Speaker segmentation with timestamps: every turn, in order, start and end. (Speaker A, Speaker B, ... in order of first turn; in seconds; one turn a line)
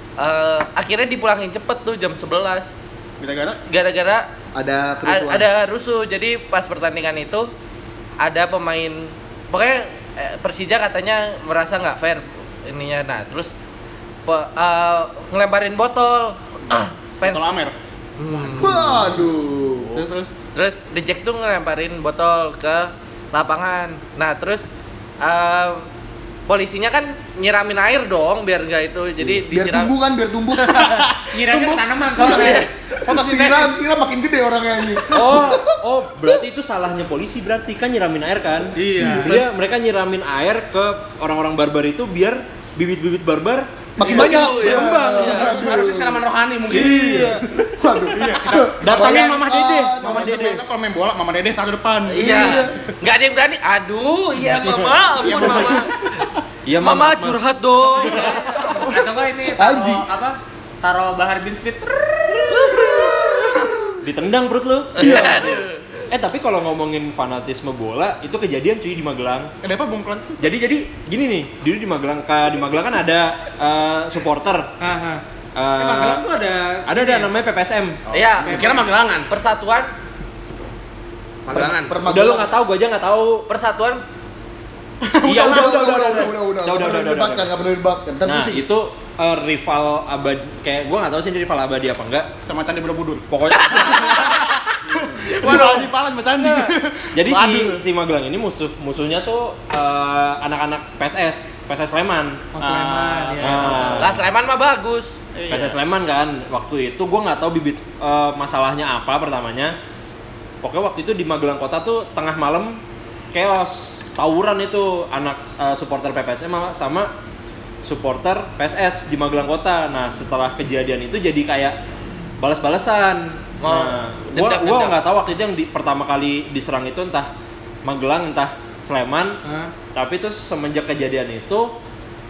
Speaker A: 0.2-2.7
Speaker B: 3.2-3.6
Speaker A: 3.6-4.3
Speaker C: 4.5-5.5
Speaker A: 5.0-7.5
Speaker A: 8.2-13.5
Speaker A: 14.3-17.5
Speaker B: 16.7-17.7
Speaker A: 18.2-18.8
Speaker C: 18.6-20.0
Speaker D: 19.9-20.3
Speaker A: 20.5-24.7
Speaker A: 25.2-25.8
Speaker A: 26.5-29.9
Speaker C: 29.2-31.1
Speaker A: 30.7-32.7
Speaker D: 31.3-32.7
Speaker C: 32.2-36.4
Speaker B: 33.2-33.6
Speaker E: 35.1-45.4
Speaker D: 38.7-39.4
Speaker C: 39.0-39.5
Speaker C: 44.0-50.6
Speaker B: 44.0-44.4
Speaker A: 44.0-45.6
Speaker F: 44.6-47.4
Speaker E: 46.7-47.4
Speaker B: 48.1-49.4
Speaker E: 48.8-50.6
Speaker B: 50.0-52.7
Speaker A: 52.1-55.9
Speaker C: 52.1-52.7
Speaker E: 54.4-55.9
Speaker B: 55.3-55.9
Speaker E: 56.6-58.3
Speaker A: 56.8-58.9
Speaker D: 57.9-62.8
Speaker C: 59.5-60.0
Speaker A: 62.6-63.7
Speaker E: 64.0-65.4
Speaker A: 64.9-65.8
Speaker C: 65.0-65.6
Speaker E: 66.1-69.5
Speaker B: 69.6-70.5
Speaker E: 70.4-74.7
Speaker D: 74.8-75.2
Speaker E: 75.5-76.2
Speaker D: 75.8-77.3
Speaker E: 76.9-78.0
Speaker A: 78.1-78.7
Speaker F: 78.2-79.3
Speaker D: 78.4-78.9
Speaker A: 79.3-79.9
Speaker F: 81.5-82.0
Speaker C: 81.5-82.5
Speaker E: 82.0-83.5
Speaker A: 83.5-84.0
Speaker B: 85.0-85.8
Speaker E: 85.2-87.5
Speaker C: 85.3-88.7
Speaker E: 88.3-92.3
Speaker B: 92.5-93.2
Speaker E: 93.3-94.3
Speaker A: 93.5-94.5
Speaker B: 94.1-97.8
Speaker C: 94.9-95.2
Speaker A: 95.4-95.7
Speaker E: 97.1-102.5
Speaker D: 102.5-104.2
Speaker B: 102.6-104.1
Speaker E: 103.4-104.2
Speaker A: 104.0-105.2
Speaker B: 105.3-105.8
Speaker E: 105.5-109.7
Speaker E: 110.6-112.8
Speaker E: 113.3-117.1
Speaker E: 117.8-121.8
Speaker E: 122.4-127.3
Speaker A: 123.6-125.0
Speaker E: 127.8-129.4
Speaker D: 129.4-129.7
Speaker E: 129.9-131.8